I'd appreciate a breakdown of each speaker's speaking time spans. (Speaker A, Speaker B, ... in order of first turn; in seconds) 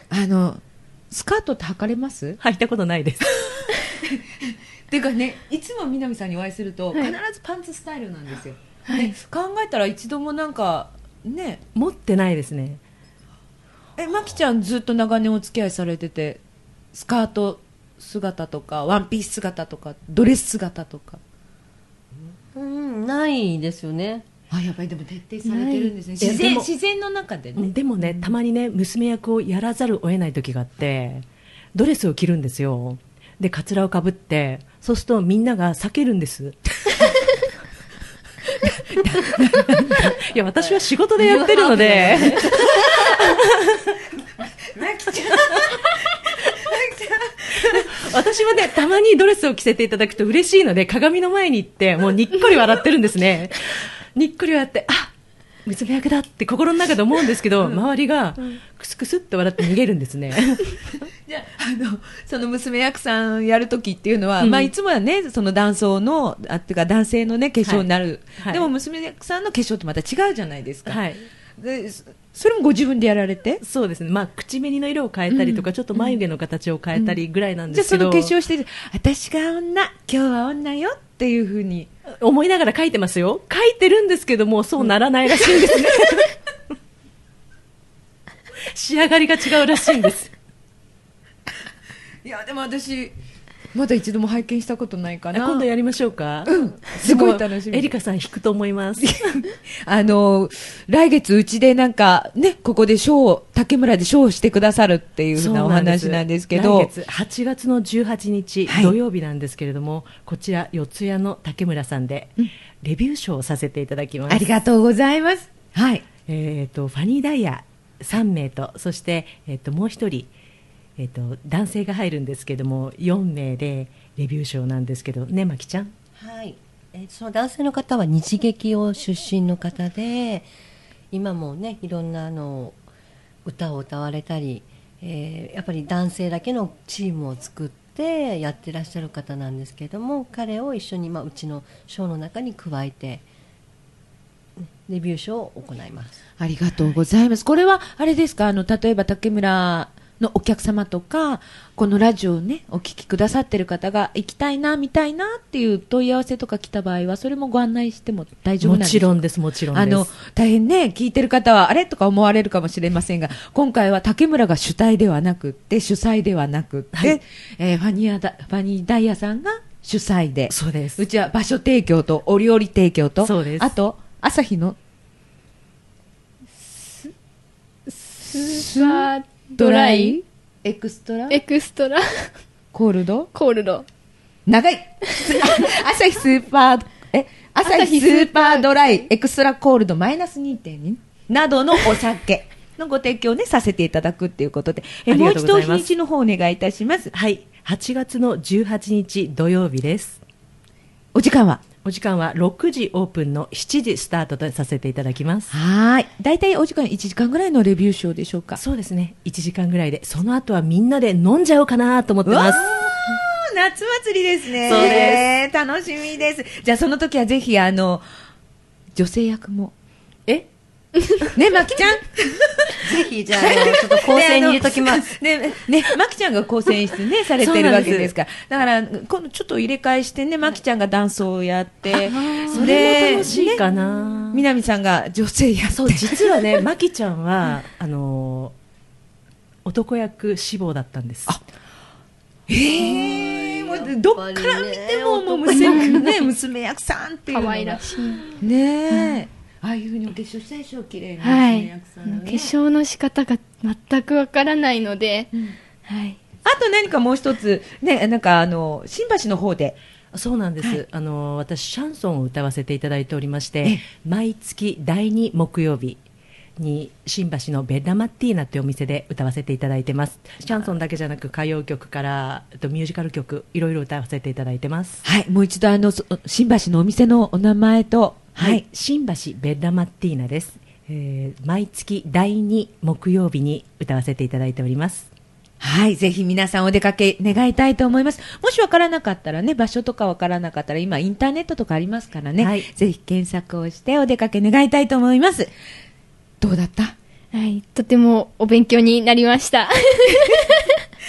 Speaker A: 0.1-2.4, 3.5-11.6, 14.0-16.4, 16.9-21.2, 24.5-28.3, 38.6-40.2, 41.4-42.5, 44.7-48.0, 61.3-71.0, 71.6-73.6, 75.3-76.2, 76.9-77.2, 77.7-81.9, 84.8-85.8, 92.2-93.2, 93.7-95.7, 96.5-97.9, 99.0-106.9, 108.7-109.0, 114.3-116.1, 146.4-174.8, 178.4-181.4, 182.7-183.3, 184.5-197.1, 201.1-201.6, 205.5-208.6, 212.2-218.0, 218.9-219.7, 221.3-233.6, 234.3-236.7, 242.5-252.5, 256.4-259.8, 260.6-260.8, 275.1-278.6, 285.6-295.5, 296.4-297.0
Speaker B: 2.4-3.8, 11.8-12.8, 26.2-26.7, 27.6-37.2, 39.2-43.9, 47.6-55.1, 55.6-60.8, 64.4-64.7, 67.6-67.9, 68.4-68.7, 70.9-71.3, 73.6-78.3, 82.2-86.3, 88.7-90.3, 95.3-99.2, 105.3-114.5, 116.2-120.3, 121.0-125.9, 158.6-160.1, 170.5-171.0, 173.2-173.7, 195.1-195.9, 197.1-200.2, 201.8-205.5, 208.6-212.7, 214.6-215.2, 227.4-228.1, 231.9-234.4, 235.7-238.6, 239.7-241.3, 260.1-266.0, 266.6-275.0, 278.4-285.1, 292.4-292.7
Speaker C: 8.9-9.2, 25.5-25.9, 176.6-177.1, 177.9-180.2, 181.3-182.3, 183.3-183.9, 185.1-185.7, 187.6-189.1, 245.6-246.0, 247.3-248.3, 248.9-249.2, 251.2-255.3, 255.8-256.2, 297.3-300.8
Speaker D: 22.2-24.3, 41.2-43.3, 126.2-130.5, 131.1-132.8, 133.4-143.2, 144.6-146.2, 222.8-225.1, 242.7-246.1